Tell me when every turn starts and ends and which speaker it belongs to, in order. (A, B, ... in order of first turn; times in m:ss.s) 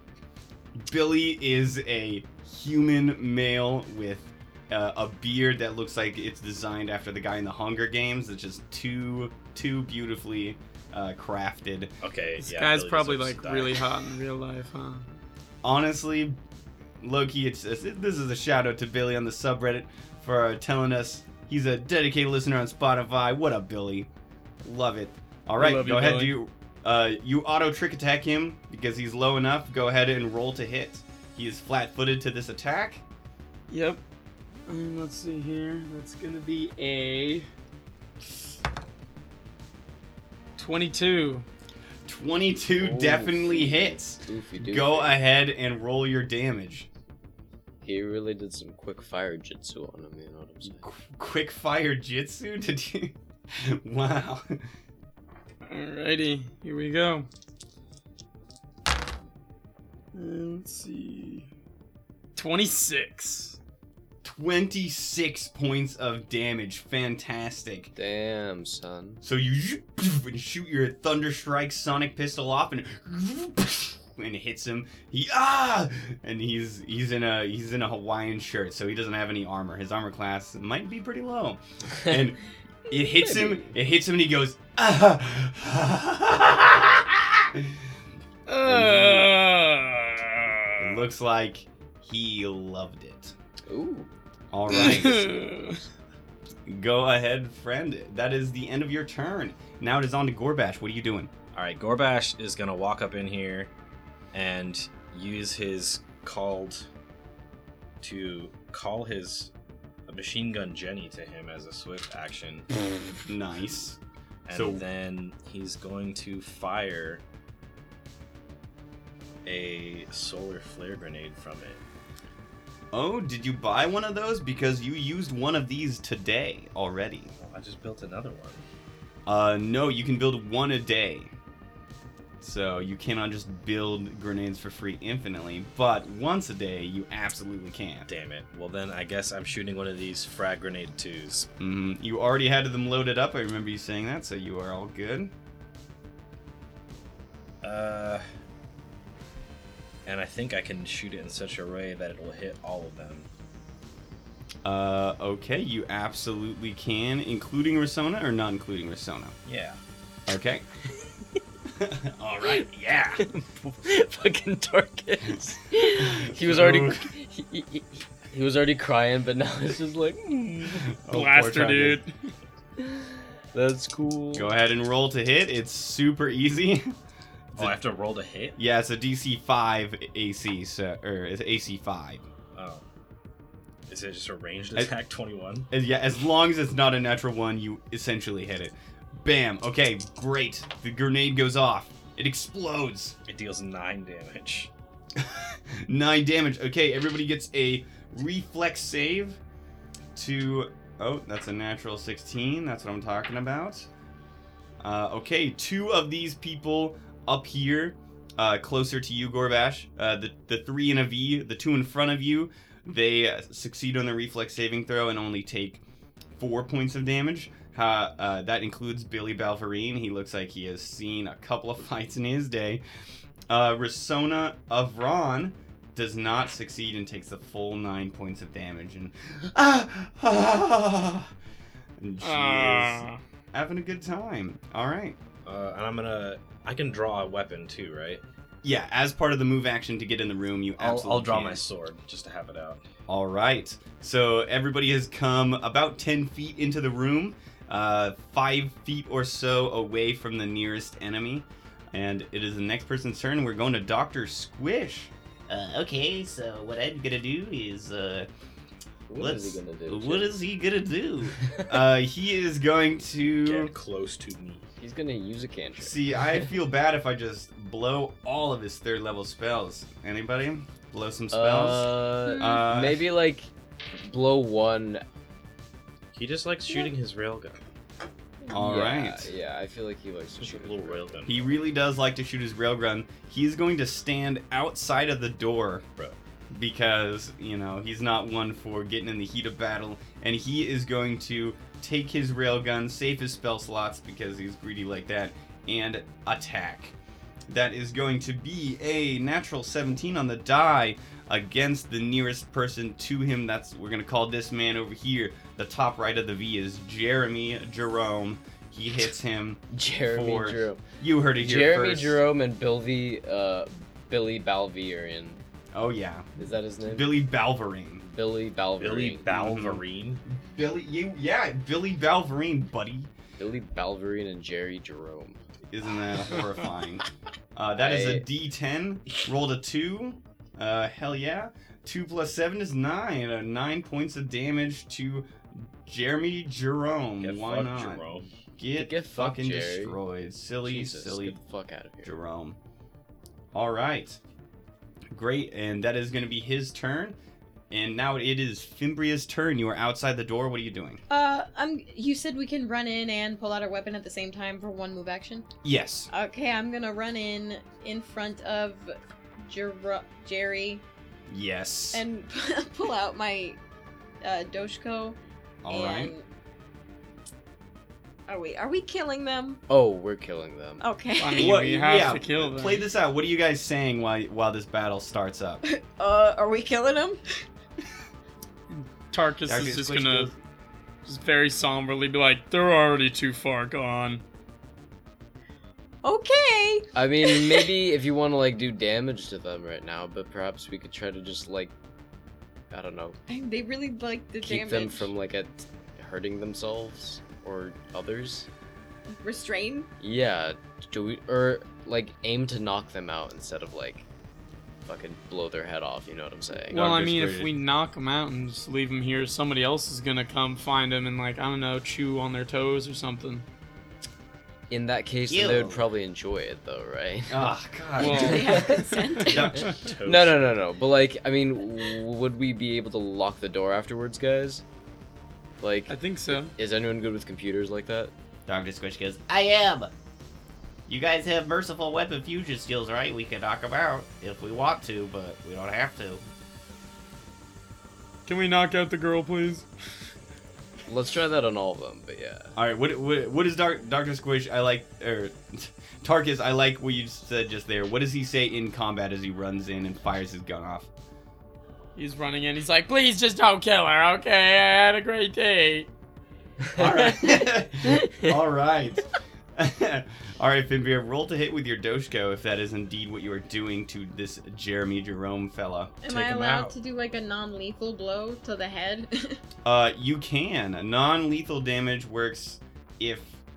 0:00.8-0:11.9 A
0:12.0-0:14.1 B
0:12.4-0:15.2 C
0:15.6-0:16.4 A
0:17.0-0:24.1 A
0:24.6-0:33.0 A
0:25.6-0:26.4 C
0:33.7-0:34.0 C
0:34.7-0:37.5 C
0:40.6-0:41.5 C
0:42.1-0:46.9 A
0:42.8-0:45.2 D
0:47.8-0:50.8 D
0:50.7-0:54.6 A
0:55.7-0:57.3 C
1:00.1-1:01.5 C
1:02.4-1:03.6 C
1:04.2-1:07.9 A
1:08.0-1:09.2 D
1:09.2-1:27.8 A
1:23.2-1:23.8 D
1:28.5-1:31.0 C
1:28.6-1:29.3 A
1:30.8-1:33.4 A
1:33.7-1:34.1 D
1:34.5-1:35.3 A
1:34.7-1:35.8 C
1:36.7-1:41.3 A
1:41.5-1:43.7 B
1:44.3-1:46.9 B
1:48.0-1:49.5 B
1:50.1-1:52.8 B
1:53.3-1:54.0 A
1:54.5-1:57.2 B
1:54.5-1:54.8 A
1:59.4-2:01.8 B
2:02.9-2:07.3 A
2:07.4-2:08.6 B
2:09.3-2:11.3 A
2:12.4-2:18.1 A
2:18.1-2:21.5 B
2:21.6-2:25.3 A
2:27.6-2:28.2 B
2:30.1-2:33.3 B
2:34.6-2:39.4 A
2:39.5-2:39.8 B
2:40.3-2:40.7 A
2:41.8-2:43.3 A
2:43.2-2:50.9 D
2:46.0-2:47.1 A
2:50.9-2:52.0 A
2:51.1-2:52.3 C
2:52.8-2:54.5 D
2:54.4-2:57.0 A
2:57.6-2:58.6 B
2:58.6-3:02.3 A
3:02.6-3:02.8 B
3:03.9-3:05.7 B
3:05.7-3:13.2 A
3:13.3-3:14.7 B
3:15.2-3:19.4 A
3:20.2-3:23.9 A
3:24.8-3:35.8 A
3:36.4-3:42.8 A
3:43.5-3:51.3 A
3:52.0-3:55.2 A
3:52.2-3:53.2 C
3:55.5-3:58.2 B
3:58.6-4:01.6 A
4:00.8-4:02.8 B
4:03.1-4:18.3 A
4:19.1-4:20.4 D
4:19.2-4:23.7 A
4:23.4-4:24.7 B
4:24.8-4:26.5 D
4:25.8-4:33.0 A
4:31.3-4:35.0 D
4:32.3-4:32.6 E
4:36.1-4:37.6 B
4:38.5-4:39.3 A
4:38.5-4:41.3 D
4:40.4-4:41.4 B
4:41.3-4:45.8 A
4:46.5-4:57.0 A
4:57.5-5:12.2 A
5:09.7-5:10.8 D
5:11.4-5:15.4 D
5:15.7-5:18.0 A
5:16.4-5:17.1 D
5:18.0-5:19.3 D
5:18.8-5:20.2 B
5:19.3-5:23.1 A
5:23.4-5:25.4 D
5:25.7-5:38.1 A
5:27.7-5:28.3 D
5:37.2-5:38.3 B
5:38.6-5:41.4 A
5:38.8-5:40.0 D
5:40.6-5:42.2 D
5:42.0-5:42.6 A
5:43.5-5:44.2 A
5:45.1-5:47.2 A
5:47.7-5:51.0 A
5:51.1-5:55.5 E
5:55.6-5:56.1 A
5:56.1-5:58.9 E
5:59.5-6:00.8 E
6:01.3-6:02.0 A
6:01.9-6:03.6 E
6:04.2-6:05.2 E
6:05.6-6:06.1 A
6:05.7-6:06.2 E
6:08.3-6:09.6 E
6:09.7-6:10.8 D
6:10.8-6:11.6 E
6:11.2-6:12.8 C
6:11.4-6:15.6 A
6:15.6-6:17.2 E
6:18.7-6:20.3 C
6:19.5-6:20.4 A
6:21.0-6:24.2 C
6:26.0-6:27.7 E
6:27.0-6:31.7 D
6:32.7-6:33.2 D
6:33.3-6:35.1 E
6:34.4-6:38.5 D
6:39.1-6:39.9 E
6:40.0-6:44.1 D
6:44.8-6:46.9 D
6:46.7-6:53.5 C
6:46.7-6:47.5 A
6:54.7-6:59.0 D
6:55.3-6:55.8 A
6:57.3-6:59.8 A
6:58.0-6:58.8 C
6:58.0-6:59.7 E
6:59.6-7:00.4 B
7:00.0-7:04.6 D
7:05.6-7:08.1 D
7:05.9-7:06.5 C
7:08.5-7:09.9 A
7:10.9-7:16.2 A
7:18.3-7:19.7 C
7:20.9-7:22.5 D
7:22.6-7:30.9 A
7:32.0-7:35.9 C
7:36.8-7:37.3 D
7:36.8-7:45.9 A
7:37.9-7:38.3 D
7:46.0-7:49.4 E
7:46.1-7:46.8 B
7:49.6-7:53.4 A